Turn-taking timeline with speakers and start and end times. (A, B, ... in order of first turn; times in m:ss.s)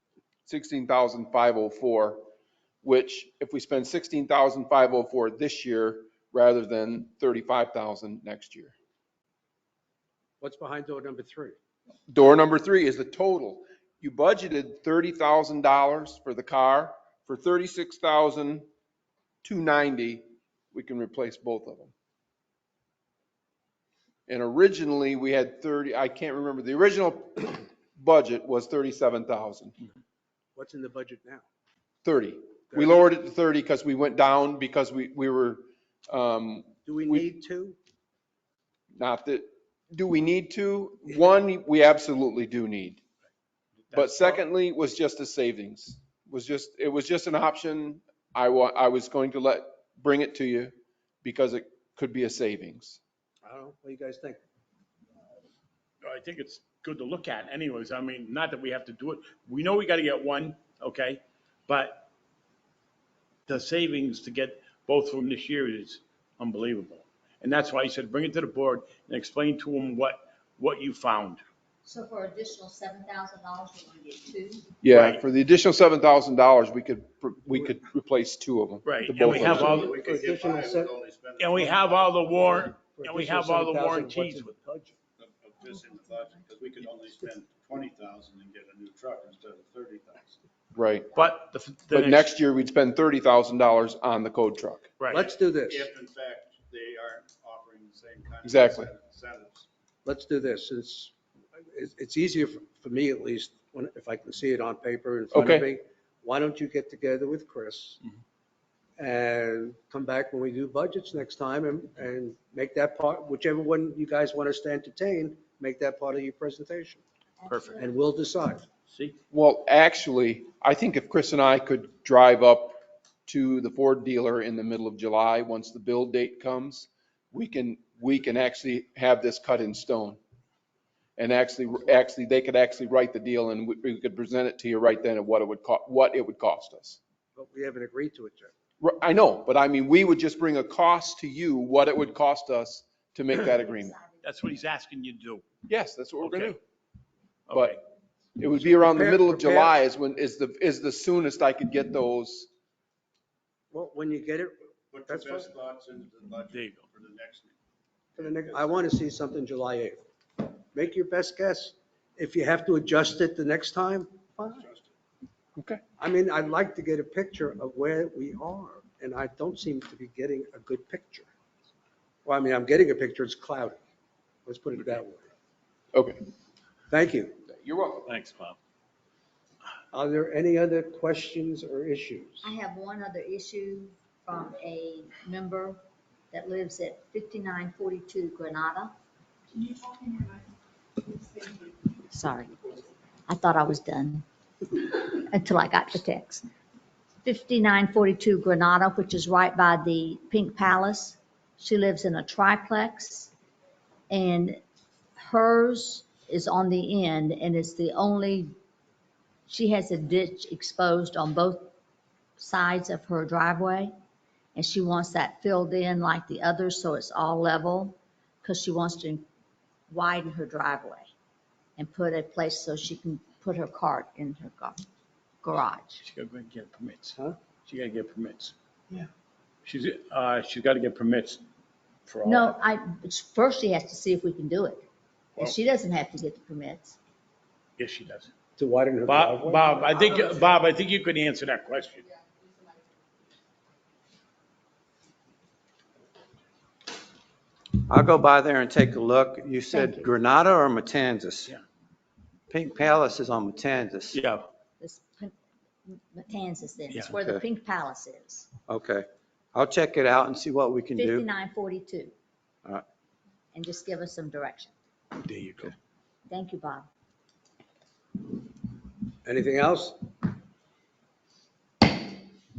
0:00.4-0:02.2 A
0:02.8-0:08.7 A
0:10.4-0:11.6 B
0:12.1-0:18.7 A
0:19.4-0:21.9 A
0:24.3-0:29.7 A
0:30.5-0:31.4 B
0:32.0-0:37.2 A
0:32.7-0:33.0 B
0:36.8-0:37.8 B
0:39.0-0:43.0 A
0:43.9-0:44.4 C
0:43.9-0:53.0 A
0:53.4-0:54.4 B
0:56.0-1:02.1 C
1:03.5-1:11.4 C
1:11.8-1:14.7 D
1:14.8-1:19.8 A
1:14.9-1:15.2 C
1:18.8-1:20.0 C
1:19.2-1:22.3 E
1:19.4-1:20.9 B
1:21.4-1:24.5 C
1:22.6-1:25.0 B
1:25.2-1:30.4 E
1:30.7-1:31.1 A
1:31.1-1:32.3 C
1:31.9-1:34.9 A
1:35.0-1:35.2 C
1:35.1-1:39.6 E
1:35.1-1:35.9 B
1:38.4-1:38.9 A
1:40.0-1:48.0 B
1:45.3-1:45.6 A
1:49.0-1:57.0 B
1:57.4-1:57.9 D
1:57.5-1:57.8 C
1:57.8-1:58.6 B
1:58.9-1:59.2 C
1:59.3-2:10.2 A
2:11.2-2:17.0 A
2:17.4-2:18.5 B
2:18.8-2:23.9 A
2:23.7-2:24.2 D
2:24.2-2:25.4 C
2:25.7-2:26.6 A
2:26.2-2:26.6 C
2:27.5-2:27.8 C
2:28.4-2:32.5 A
2:28.5-2:29.7 B
2:33.7-2:35.5 B
2:34.9-2:37.5 E
2:36.5-2:36.8 C
2:38.1-2:38.9 E
2:38.2-2:40.0 B
2:40.7-2:44.7 B
2:44.5-2:44.9 E
2:46.0-2:51.3 B
2:52.2-2:53.8 B
2:54.4-2:55.3 B
2:55.9-2:56.2 A
2:56.9-2:57.4 B
2:57.5-2:58.1 A
2:58.1-2:58.5 C
2:59.9-3:02.5 B
3:02.4-3:05.8 D
3:06.3-3:08.9 D
3:12.1-3:12.7 D
3:13.3-3:16.4 D
3:17.2-3:23.3 D
3:24.1-3:24.6 D
3:25.2-3:28.5 D
3:29.5-3:31.7 D
3:32.4-3:33.9 D
3:34.5-3:39.2 D
3:39.9-3:41.1 D
3:41.8-3:44.8 D
3:45.4-3:46.0 D
3:46.0-3:48.5 C
3:49.6-3:51.4 C
3:52.1-3:52.6 C
3:52.2-3:57.0 D
3:57.8-3:58.3 C
3:58.6-3:59.7 B
3:59.0-4:02.1 C
4:07.8-4:11.5 F
4:09.7-4:10.1 D
4:12.5-4:14.2 F
4:14.1-4:14.4 C
4:14.8-4:15.3 D
4:15.8-4:18.5 D
4:17.1-4:17.4 F
4:18.7-4:21.2 F
4:20.9-4:22.1 D
4:23.5-4:24.7 D
4:25.1-4:25.7 C
4:26.3-4:26.9 D
4:29.2-4:30.0 B